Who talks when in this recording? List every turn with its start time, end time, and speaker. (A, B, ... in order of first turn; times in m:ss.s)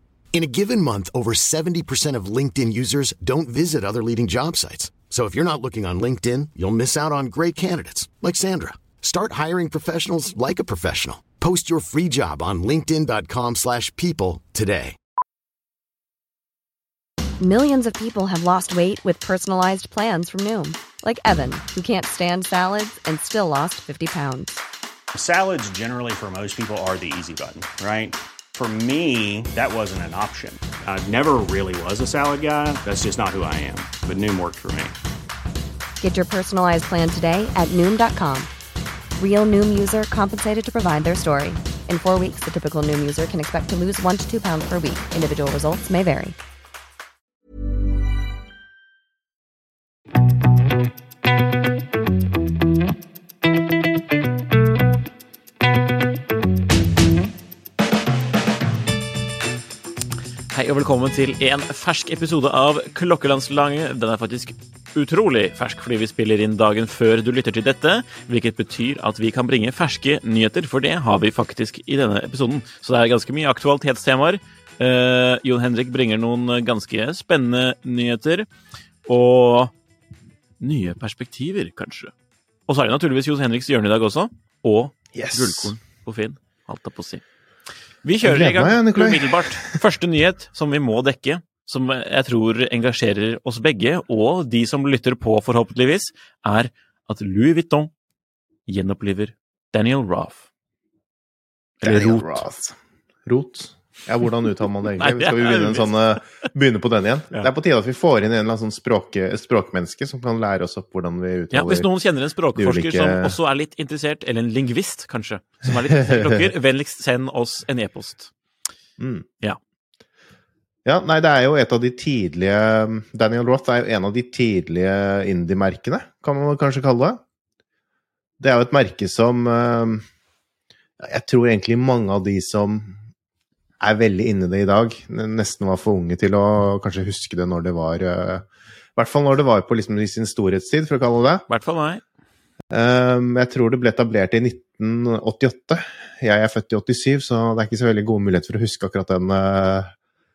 0:00.3-0:15.0 A
0:17.4-0:24.6 B
0:25.1-0:35.0 C
0:36.0-0:38.5 B
0:39.2-0:46.4 B
1:00.5-1:18.5 D
1:19.0-1:19.7 D
1:20.6-1:22.1 D
1:22.7-1:27.2 D
1:25.1-1:25.7 E
1:28.0-1:37.9 D
1:28.2-1:29.8 E
1:38.7-1:40.4 D
1:41.8-1:42.4 D
1:41.8-1:51.9 E
1:44.9-1:46.2 D
1:51.5-1:58.3 D
1:52.6-1:53.4 E
1:55.9-1:56.5 E
1:59.0-1:59.3 E
2:00.8-2:07.2 E
2:08.4-2:10.1 E
2:11.0-2:13.0 E
2:13.8-2:21.4 E
2:21.5-2:22.0 D
2:22.7-2:29.9 E